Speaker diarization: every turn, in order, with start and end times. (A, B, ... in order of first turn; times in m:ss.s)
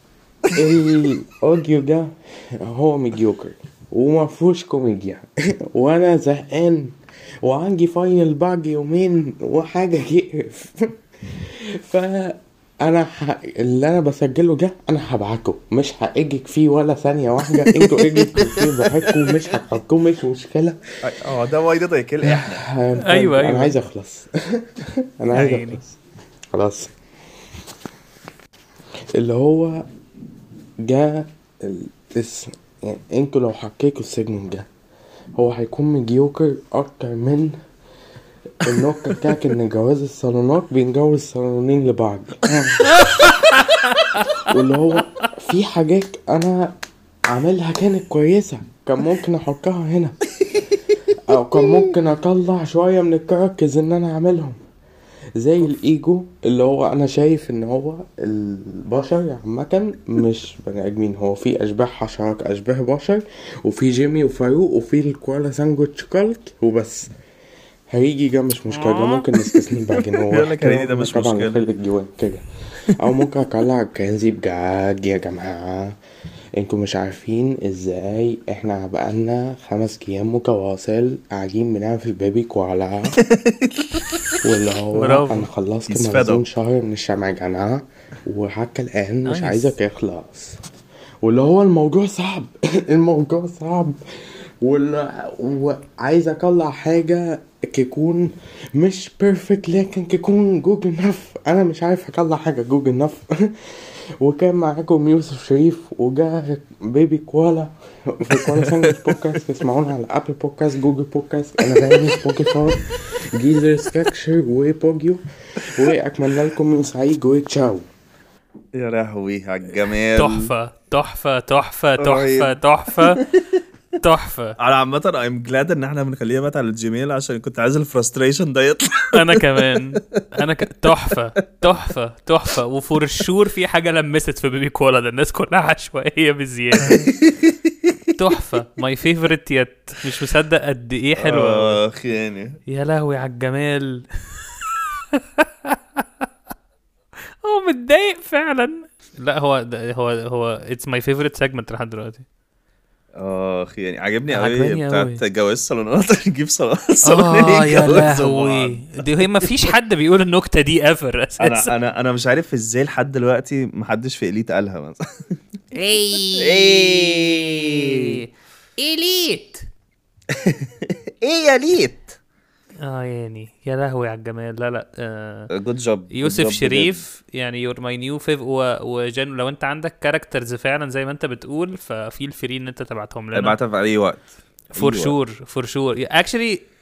0:00.5-0:10.9 A
0:11.5-0:20.8 A
0:21.0-0:22.6 B
0:22.2-0:26.0 A
0:23.0-0:23.7 C
0:25.3-0:25.8 C
0:26.5-0:26.9 A
0:29.2-0:29.8 A
0:30.8-0:34.7 A
0:35.4-0:37.6 A
0:38.6-0:43.0 A
0:43.0-0:44.3 C
0:44.5-0:46.7 A
0:47.3-0:50.2 A
0:51.3-0:54.6 A
0:55.4-1:07.1 A
1:07.9-1:12.4 A
1:08.7-1:11.6 B
1:13.0-1:16.0 A
1:16.6-1:23.2 A
1:23.3-1:24.2 B
1:24.4-1:30.6 A
1:24.9-1:25.5 C
1:25.9-1:26.4 B
1:29.2-1:29.7 C
1:31.2-1:34.0 A
1:34.6-1:43.5 A
1:44.2-1:57.8 A
1:48.4-1:49.3 B
1:58.8-2:00.5 B
2:00.2-2:03.2 C
2:02.0-2:03.4 B
2:04.0-2:04.6 C
2:04.6-2:10.2 B
2:09.1-2:17.1 C
2:16.8-2:17.9 B
2:18.2-2:21.8 C
2:21.2-2:22.6 B
2:22.7-2:24.0 C
2:25.4-2:25.8 C
2:27.4-2:32.2 C
2:33.2-2:39.5 B
2:34.3-2:35.2 C
2:37.0-2:41.7 C
2:41.4-2:45.0 B
2:45.8-2:48.3 C
2:46.4-2:48.2 B
2:48.8-2:49.6 C
2:50.4-2:50.7 B
2:51.2-2:52.2 B
2:52.8-2:55.5 C
2:55.5-2:57.0 B
2:56.1-3:03.6 C
3:03.3-3:05.2 B
3:04.8-3:06.6 C